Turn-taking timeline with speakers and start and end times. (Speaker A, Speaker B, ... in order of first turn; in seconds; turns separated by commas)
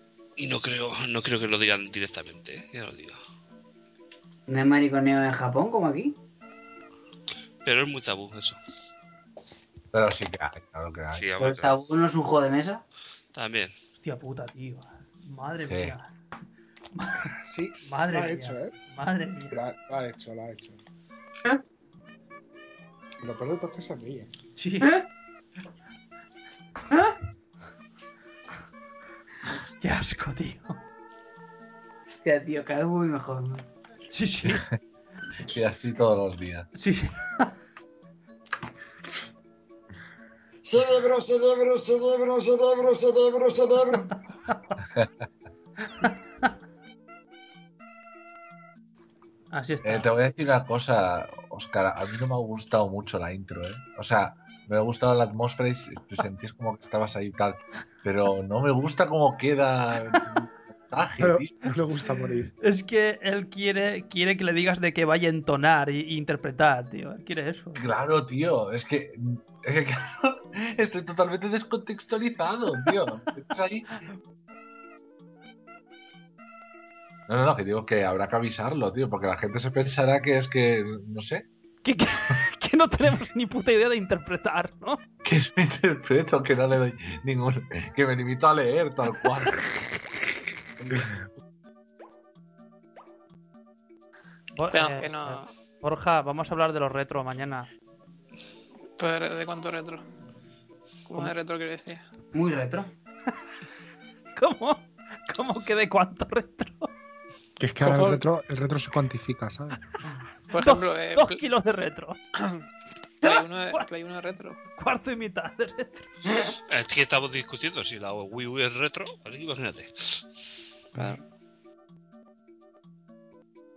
Speaker A: 0.4-3.2, Speaker B: 4.5-6.1, Speaker A: 7.6-8.6, Speaker C: 9.9-11.2, Speaker A: 11.1-11.7, Speaker B: 11.4-12.8, Speaker A: 13.3-13.7, Speaker D: 13.9-16.1, Speaker C: 15.7-15.9, Speaker D: 16.9-17.3, Speaker E: 17.4-18.7, Speaker D: 17.8-19.6, Speaker E: 19.5-20.8, Speaker E: 23.2-24.3, Speaker D: 24.6-25.0, Speaker D: 29.8-30.8, Speaker B: 32.1-33.7, Speaker D: 34.1-34.6, Speaker C: 34.5-34.8, Speaker C: 35.5-36.7, Speaker D: 36.7-37.5, Speaker F: 40.6-44.0, Speaker D: 46.0-46.5, Speaker D: 49.5-50.1, Speaker C: 49.8-61.5, Speaker E: 61.2-62.5, Speaker D: 62.6-67.8, Speaker C: 67.8-73.9, Speaker C: 77.3-81.4, Speaker D: 81.8-85.0, Speaker C: 85.2-89.5, Speaker C: 90.8-91.1, Speaker D: 94.5-97.7, Speaker G: 94.7-95.5, Speaker G: 99.0-100.0, Speaker G: 101.1-102.0, Speaker B: 102.3-102.9, Speaker D: 104.3-106.9, Speaker E: 107.6-109.8, Speaker G: 107.8-108.2, Speaker G: 110.5-111.4, Speaker D: 110.5-112.2, Speaker D: 113.2-113.8, Speaker G: 113.2-114.6, Speaker D: 114.7-116.1, Speaker A: 116.7-119.9